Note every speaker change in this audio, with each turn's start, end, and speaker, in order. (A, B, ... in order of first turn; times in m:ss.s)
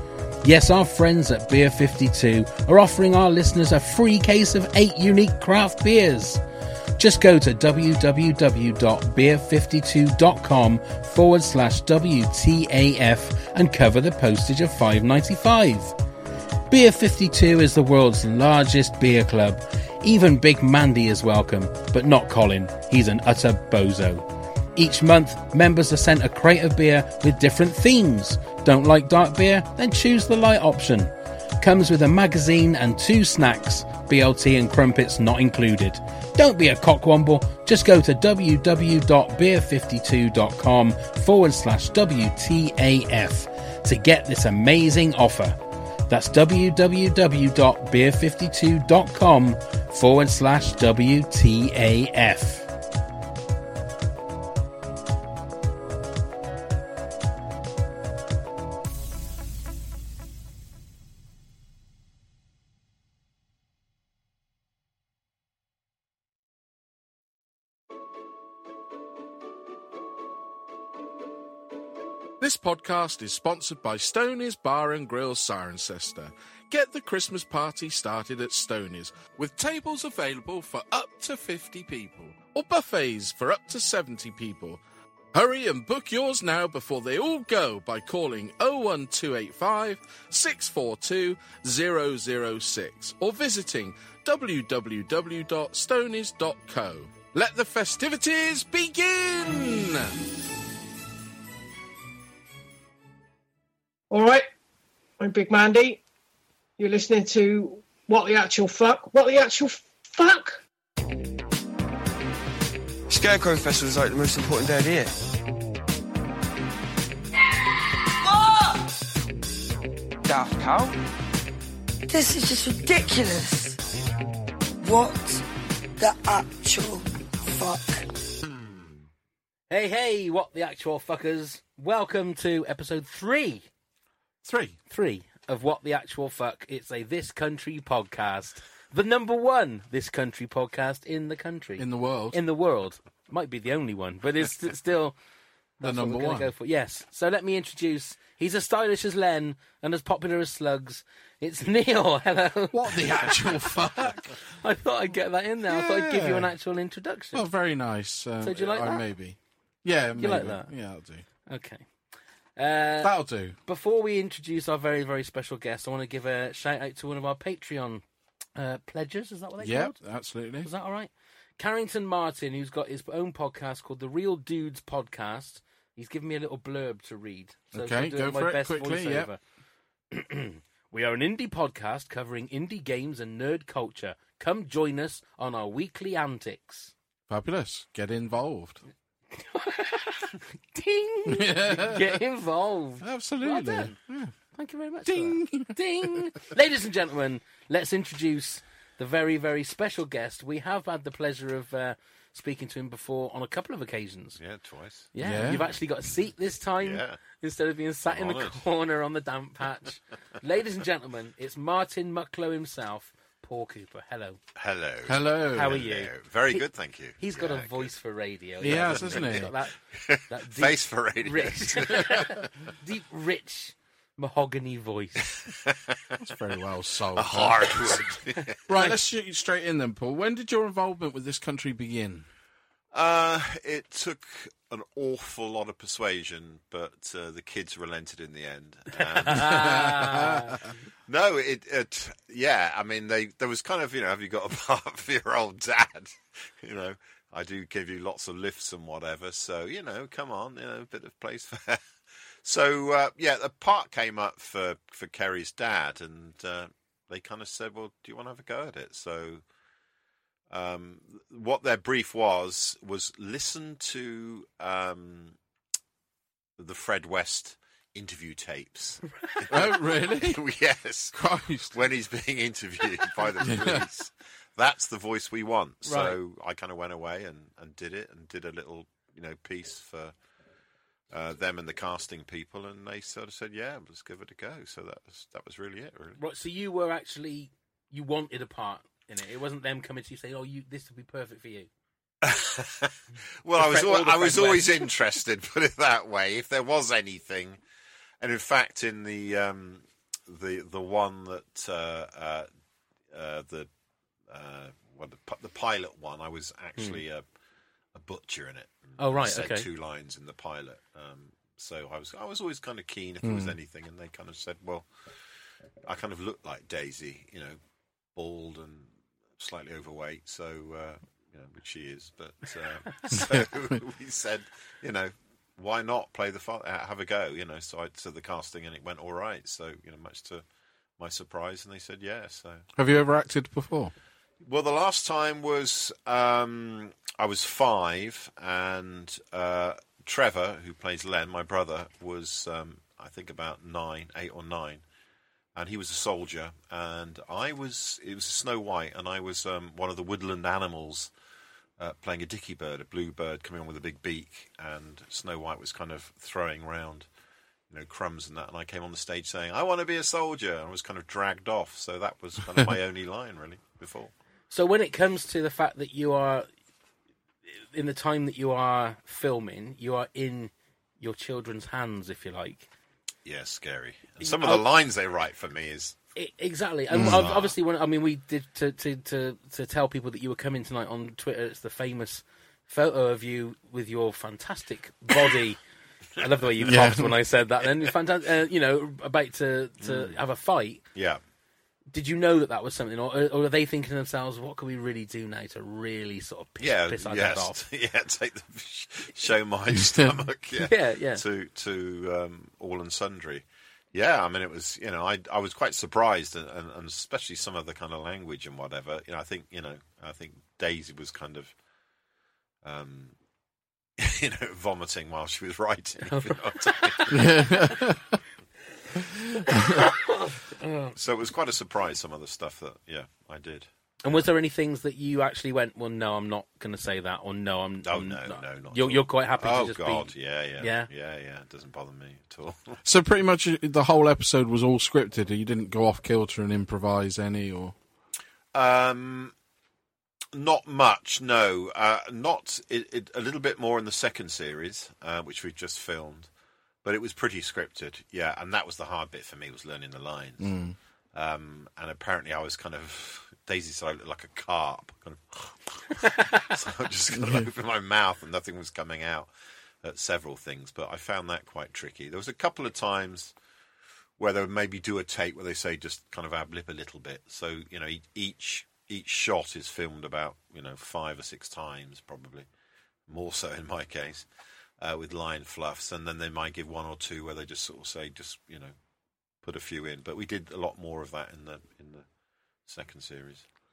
0:00.4-0:06.4 A
0:07.0-0:15.9 A
0:16.7-0:45.6 A
0:46.1-0:52.7 A
1:12.4-1:24.8 B
1:25.3-1:40.2 B
1:44.1-1:44.4 C
1:45.2-1:46.0 C
1:46.8-1:50.6 C
1:53.1-1:55.1 D
1:58.0-1:59.0 E
2:00.2-2:00.9 D
2:02.1-2:03.8 E
2:04.8-2:05.4 E
2:06.0-2:08.1 E
2:09.7-2:13.7 A
2:14.4-2:14.8 B
2:14.9-2:25.2 A
2:21.8-2:22.4 B
2:25.8-2:33.8 A
2:25.8-2:26.5 B
2:32.7-2:34.4 B
2:34.4-2:37.4 A
2:35.6-2:36.5 B
2:37.3-2:41.2 B
2:38.4-2:39.0 A
2:40.2-2:40.7 A
2:41.5-2:41.8 A
2:42.6-2:48.0 A
2:43.0-2:43.6 B
2:48.6-2:50.0 A
2:49.6-2:50.7 B
2:50.6-2:59.4 A
2:57.7-2:59.3 B
3:00.1-3:06.9 A
3:07.3-3:08.8 B
3:09.3-3:13.9 A
3:11.2-3:12.2 B
3:13.0-3:14.3 B
3:14.5-3:24.4 A
3:15.0-3:16.3 B
3:24.4-3:25.1 F
3:25.1-3:34.4 A
3:25.2-3:25.7 B
3:26.8-3:27.2 F
3:28.0-3:28.6 F
3:34.6-3:37.9 F
3:35.0-3:35.8 B
3:35.5-3:36.6 A
3:37.2-3:39.7 A
3:38.6-3:39.5 B
3:38.6-3:42.4 F
3:40.3-3:45.2 A
3:45.3-3:46.2 F
3:46.2-3:48.0 B
3:47.1-3:48.9 F
3:48.7-3:52.3 B
3:52.9-4:00.2 F
3:59.0-4:00.6 A
3:59.3-4:00.6 B
4:01.1-4:11.8 F
4:12.4-4:19.4 F
4:20.5-4:25.3 F
4:26.6-4:40.1 F
4:29.5-4:30.4 B
4:31.1-4:31.8 B
4:33.4-4:33.8 B
4:35.8-4:36.2 A
4:41.1-4:46.2 F
4:46.2-4:51.7 A
4:52.2-4:57.6 F
4:53.6-4:54.8 A
4:58.2-5:02.5 F
5:03.1-5:03.7 F
5:04.3-5:07.2 F
5:07.9-5:14.8 F
5:09.0-5:09.7 A
5:13.2-5:13.5 B
5:15.8-5:17.6 F
5:18.1-5:30.4 F
5:23.1-5:23.7 B
5:31.0-5:32.6 F
5:32.8-5:33.9 B
5:34.4-5:44.8 F
5:45.6-5:51.1 F
5:51.8-5:57.1 F
5:57.7-6:04.1 F
6:04.5-6:06.5 A
6:07.7-6:12.7 A
6:13.2-6:16.0 F
6:14.2-6:14.6 A
6:16.2-6:25.6 A
6:16.9-6:17.2 B
6:17.0-6:17.6 F
6:26.2-6:30.8 A
6:26.6-6:27.1 B
6:29.8-6:30.2 F
6:30.9-6:31.2 F
6:31.9-6:37.6 A
6:36.6-6:51.5 F
6:39.7-6:40.2 B
6:40.6-6:41.2 A
6:52.6-6:53.1 F
6:54.0-6:57.3 F
6:56.1-6:57.2 A
6:57.1-6:58.2 B
6:59.2-6:59.9 B
6:59.6-7:00.9 A
7:00.9-7:03.7 F
7:04.0-7:10.9 A
7:07.8-7:12.8 F
7:12.8-7:17.7 B
7:18.5-7:19.3 F
7:20.3-7:26.3 F
7:26.8-7:30.6 F
7:30.4-7:30.8 B
7:31.1-7:39.3 F
7:37.1-7:37.5 B
7:39.8-7:43.3 F
7:44.2-7:52.5 F
7:53.1-7:54.2 F
7:54.8-7:58.7 F
7:59.4-8:02.0 F
8:02.6-8:03.4 F